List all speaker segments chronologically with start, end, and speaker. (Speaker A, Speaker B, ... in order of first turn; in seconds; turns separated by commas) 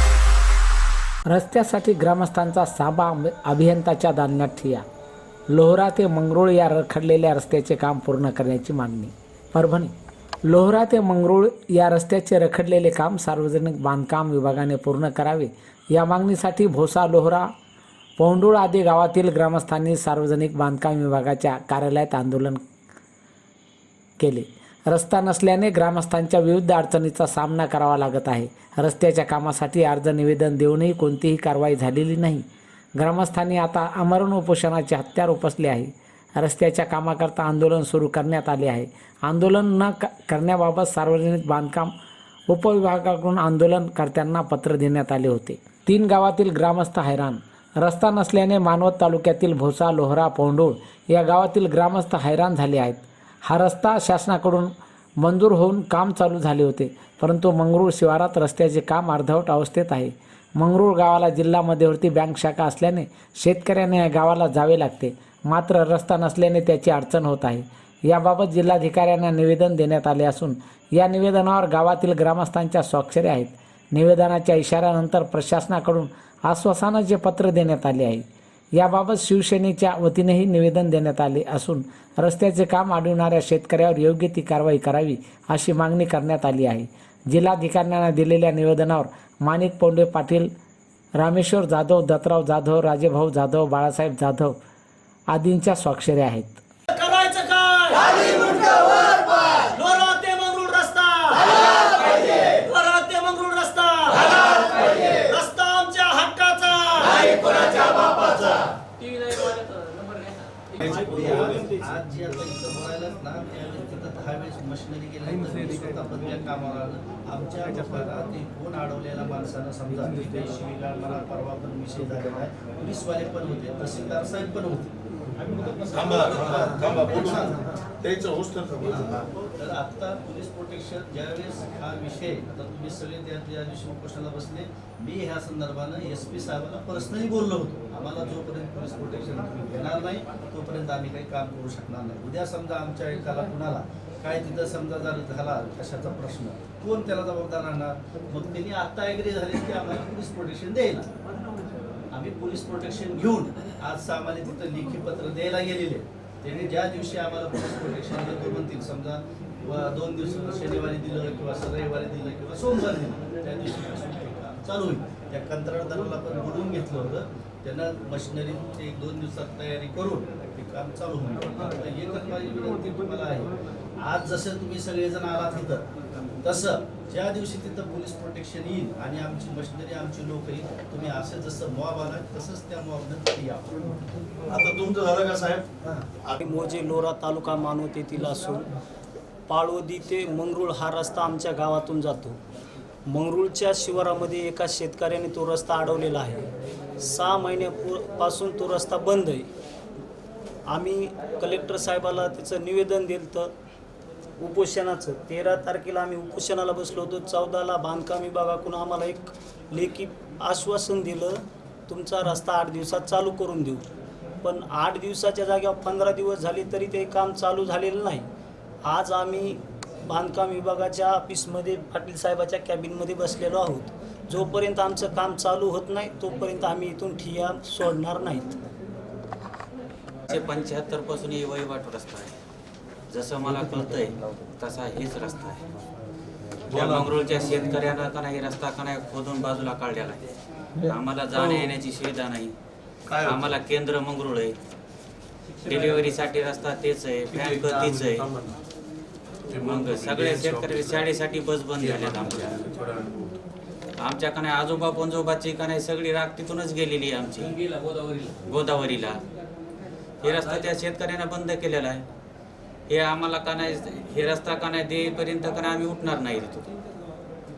Speaker A: 1.3-4.8, Speaker A: 5.5-9.9, Speaker A: 10.5-17.5, Speaker A: 18.2-22.6, Speaker A: 24.2-32.4, Speaker A: 33.0-41.9, Speaker A: 42.5-78.2, Speaker A: 78.8-90.5, Speaker A: 91.2-94.5, Speaker A: 95.3-96.6, Speaker B: 96.9-108.6, Speaker B: 109.3-109.5, Speaker B: 110.8-127.8, Speaker C: 110.8-111.9, Speaker D: 125.9-129.2, Speaker B: 128.9-151.1, Speaker B: 152.1-175.8, Speaker B: 176.4-183.8, Speaker D: 184.5-185.7, Speaker C: 186.4-188.7, Speaker C: 189.5-192.4, Speaker C: 193.1-196.5, Speaker C: 197.0-199.5, Speaker C: 200.7-203.5, Speaker C: 204.4-213.8, Speaker C: 214.4-218.2, Speaker C: 218.8-228.6, Speaker E: 230.3-232.3, Speaker E: 233.1-235.6, Speaker D: 236.7-237.1, Speaker E: 236.7-240.2, Speaker E: 240.8-242.6, Speaker D: 243.1-243.5, Speaker E: 243.2-244.6, Speaker E: 245.6-248.3, Speaker D: 247.3-248.5, Speaker D: 249.5-251.1, Speaker E: 249.6-252.6, Speaker D: 251.8-253.3, Speaker E: 254.0-257.6, Speaker E: 258.4-259.2, Speaker E: 260.2-262.1, Speaker E: 262.9-266.7